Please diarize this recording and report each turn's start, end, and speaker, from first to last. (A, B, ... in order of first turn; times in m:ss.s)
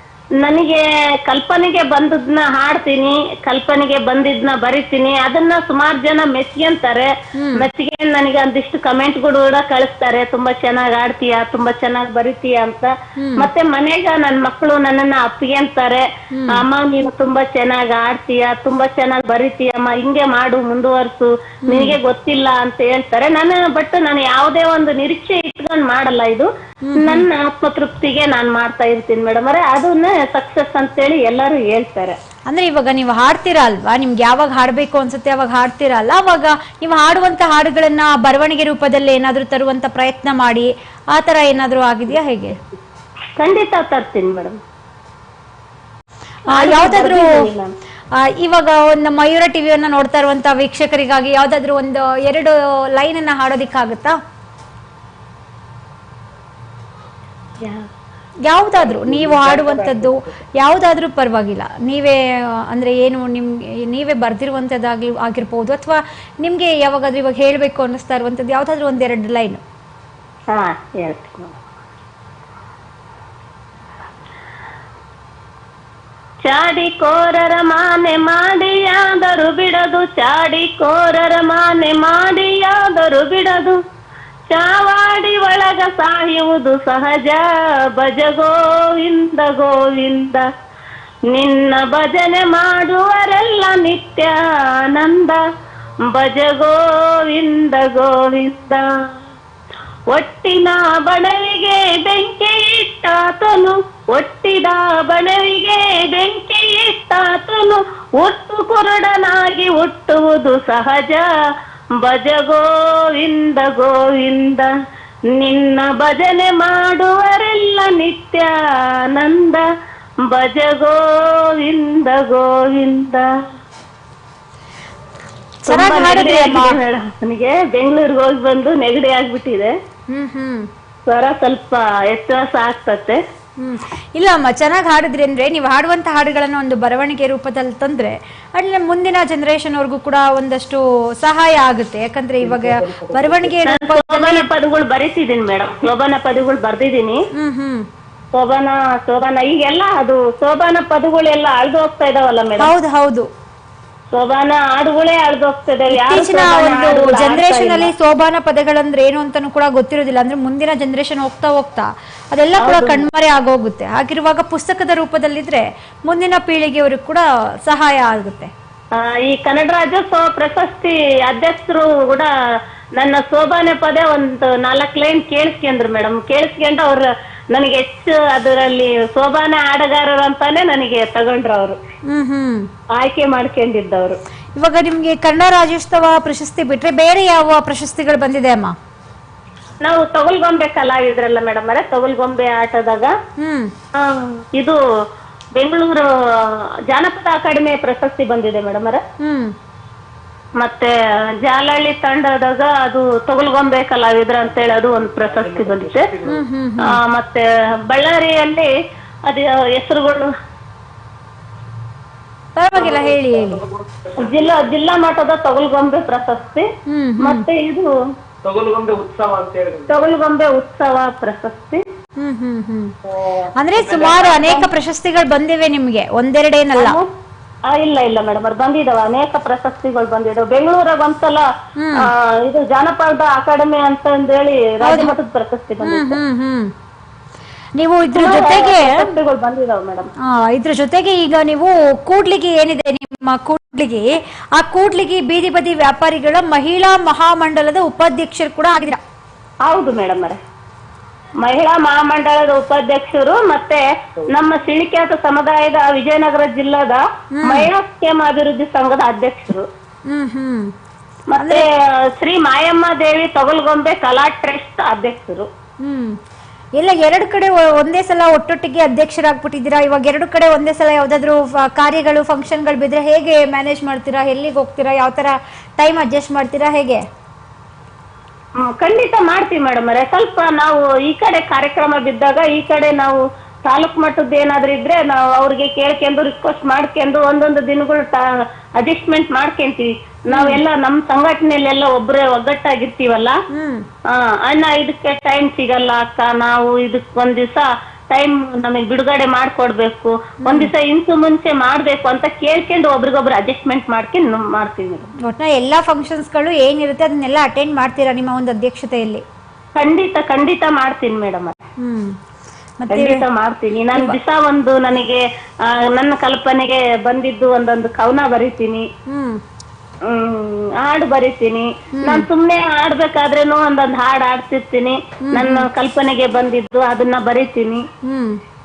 0:00.4-0:32.2 A
0:07.4-0:07.7 B
0:13.2-0:13.5 B
0:16.3-0:16.6 B
0:21.7-0:22.0 B
0:26.8-0:27.2 B
0:32.5-0:42.6 B
0:43.4-0:44.6 A
0:46.5-0:47.4 B
0:46.5-0:47.7 A
0:48.2-0:54.2 B
0:57.6-0:57.9 A
0:58.5-1:09.6 B
0:58.9-1:00.2 C
1:10.5-1:11.6 A
1:16.4-1:23.8 A
1:24.5-1:30.5 A
1:31.3-1:35.4 A
1:36.0-1:38.9 A
1:40.1-1:51.3 A
1:51.9-1:54.7 A
1:55.3-1:59.6 A
2:00.2-2:03.3 A
2:05.6-2:06.8 B
2:05.7-2:09.8 A
2:10.1-2:10.7 B
2:11.1-2:13.2 A
2:13.6-2:24.5 B
2:22.4-2:23.4 C
2:23.6-2:27.2 A
2:27.4-2:27.9 B
2:28.3-2:32.7 A
2:32.6-2:33.3 B
2:34.1-2:37.9 A
2:35.9-2:48.5 B
2:42.6-2:43.1 A
2:48.9-2:52.3 A
2:53.0-3:01.8 A
3:02.1-3:02.7 B
3:02.9-3:04.2 A
3:04.6-3:08.7 B
3:09.8-3:13.1 A
3:13.4-3:13.7 B
3:13.9-3:14.8 A
3:15.6-3:19.0 A
3:19.2-3:19.5 B
3:20.6-3:26.1 A
3:24.7-3:26.4 C
3:26.2-3:27.0 B
3:26.8-3:28.7 A
3:29.2-3:30.3 A
3:32.6-3:33.6 B
3:33.4-3:34.1 C
3:34.2-3:36.7 A
3:36.9-3:37.4 B
3:37.2-3:37.9 A
3:38.4-3:39.9 C
3:39.9-3:41.8 A
3:42.2-3:42.9 B
3:43.6-3:47.0 B
3:43.9-3:44.7 A
3:46.8-3:47.1 A
3:47.7-3:56.2 A
3:51.8-3:52.1 B
3:54.8-3:55.1 B
3:55.8-3:56.7 B
3:57.8-3:59.1 B
3:58.1-4:00.1 A
4:00.2-4:09.0 B
4:09.6-4:10.4 A
4:11.4-4:19.7 A
4:17.4-4:17.7 B
4:20.1-4:20.7 B
4:21.3-4:25.5 A
4:21.4-4:21.6 B
4:25.8-4:26.2 B
4:26.8-4:37.0 B
4:38.6-4:48.2 A
4:48.8-4:53.4 A
4:50.3-4:50.6 B
4:53.5-4:53.9 B
4:54.0-5:05.1 A
5:00.4-5:00.7 B
5:05.2-5:09.2 B
5:09.8-5:11.6 A
5:11.8-5:12.2 B
5:12.8-5:13.2 B
5:12.9-5:18.9 A
5:19.1-5:19.4 B
5:20.0-5:27.9 A
5:22.0-5:22.3 B
5:25.2-5:25.7 B
5:28.0-5:28.4 B